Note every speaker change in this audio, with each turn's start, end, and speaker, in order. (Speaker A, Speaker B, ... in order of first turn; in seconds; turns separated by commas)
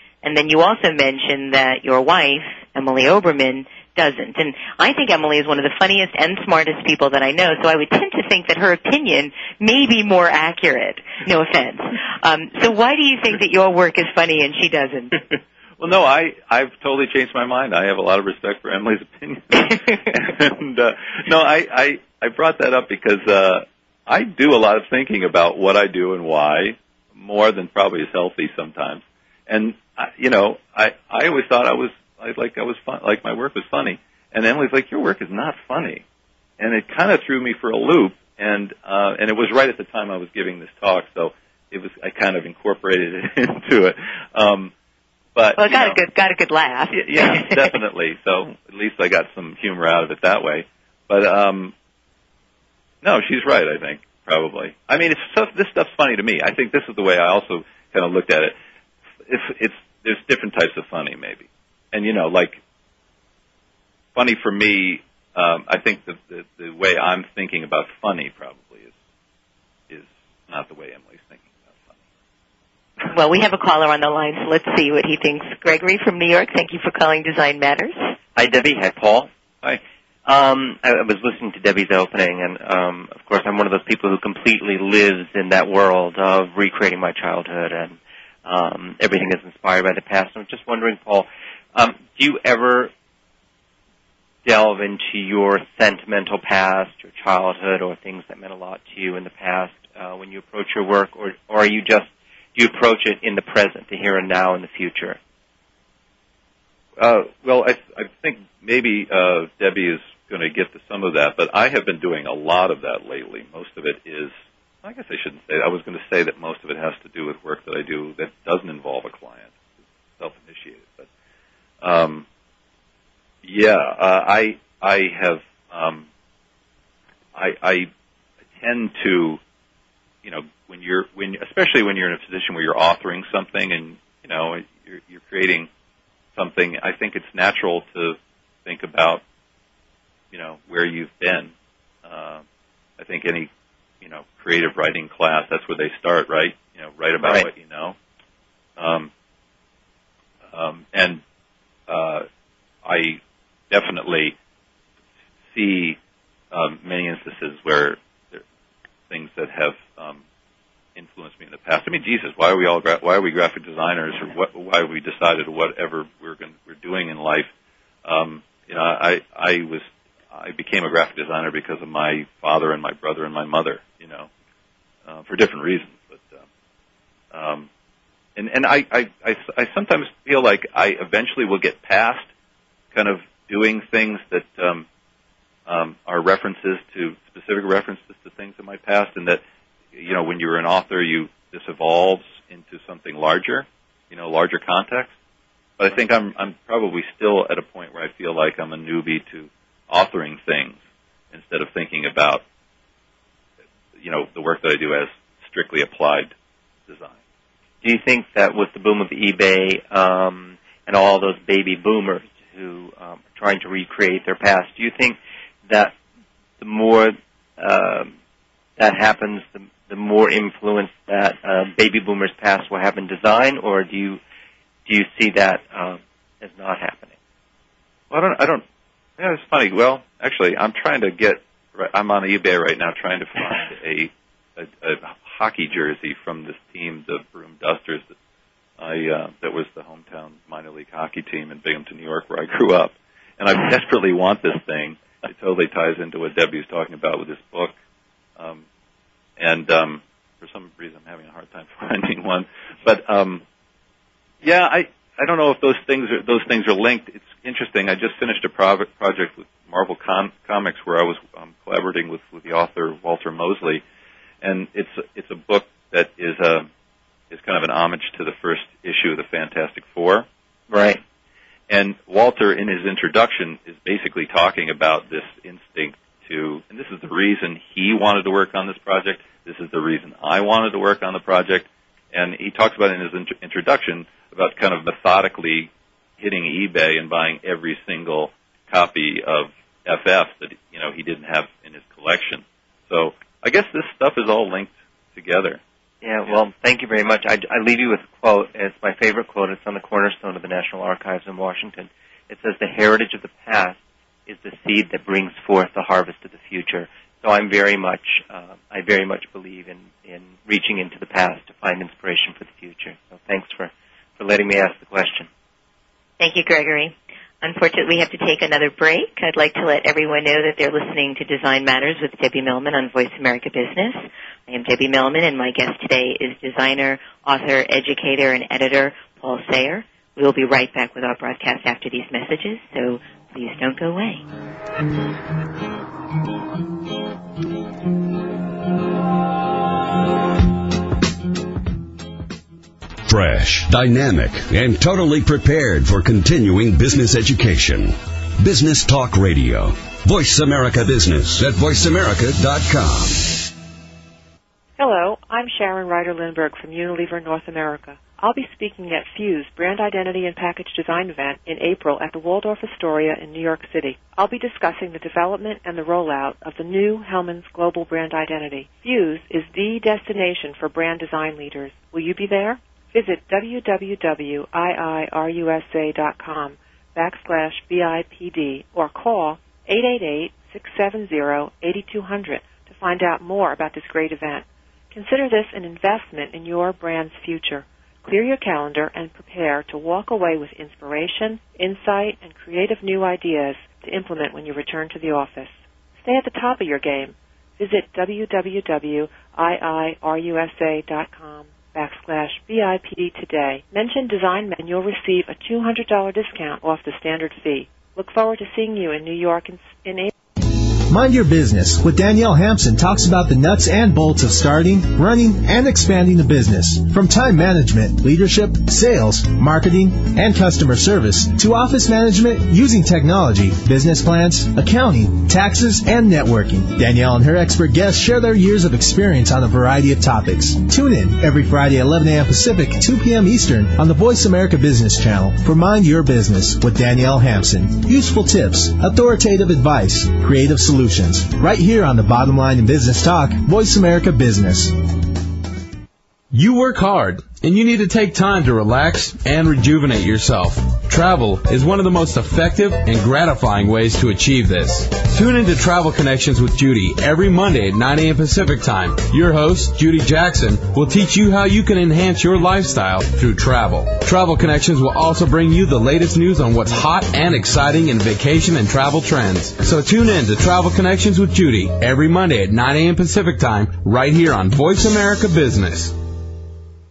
Speaker A: 0.2-15.1, Speaker B: 15.3-36.0, Speaker B: 36.6-44.7, Speaker B: 45.3-46.0, Speaker A: 45.6-47.7, Speaker B: 46.9-51.7, Speaker B: 53.0-58.5, Speaker B: 59.2-62.6, Speaker B: 64.1-68.9, Speaker B: 69.9-71.9, Speaker A: 73.1-78.1, Speaker C: 78.3-79.3, Speaker C: 80.2-92.9, Speaker C: 94.4-105.2, Speaker B: 107.0-114.3, Speaker B: 114.8-119.5, Speaker B: 120.2-121.1, Speaker B: 121.8-122.2, Speaker B: 123.4-126.0, Speaker B: 127.3-127.9, Speaker B: 128.6-129.4, Speaker B: 130.2-135.7, Speaker B: 136.3-139.2, Speaker B: 140.3-141.5, Speaker B: 142.0-142.4, Speaker B: 143.0-143.5, Speaker B: 144.0-147.9, Speaker C: 147.2-147.5, Speaker B: 148.8-149.1, Speaker B: 150.5-151.2, Speaker B: 151.9-152.2, Speaker B: 152.8-153.2, Speaker B: 153.7-154.3, Speaker B: 155.5-156.0, Speaker B: 156.5-158.4, Speaker B: 159.1-160.2, Speaker B: 160.9-167.5, Speaker B: 168.0-174.3, Speaker B: 175.1-176.4, Speaker B: 177.3-177.7, Speaker B: 178.3-182.3, Speaker B: 182.9-184.8, Speaker B: 185.7-189.4, Speaker B: 189.9-195.1, Speaker B: 195.8-200.8, Speaker B: 201.3-202.4, Speaker B: 204.0-206.3, Speaker B: 206.9-207.1, Speaker C: 207.8-215.9, Speaker C: 216.6-218.1, Speaker C: 218.8-224.2, Speaker C: 224.8-227.1, Speaker B: 228.1-228.6, Speaker B: 229.2-238.1, Speaker B: 238.8-247.7, Speaker B: 248.4-248.6, Speaker B: 249.4-253.4, Speaker B: 254.4-263.8, Speaker B: 264.4-266.7, Speaker B: 267.3-270.2, Speaker C: 270.7-271.0, Speaker B: 271.7-295.6, Speaker C: 296.0-315.3, Speaker A: 316.2-334.2, Speaker D: 343.1-353.4, Speaker E: 354.8-410.1, Speaker F: 410.9-444.8, Speaker G: 446.3-475.9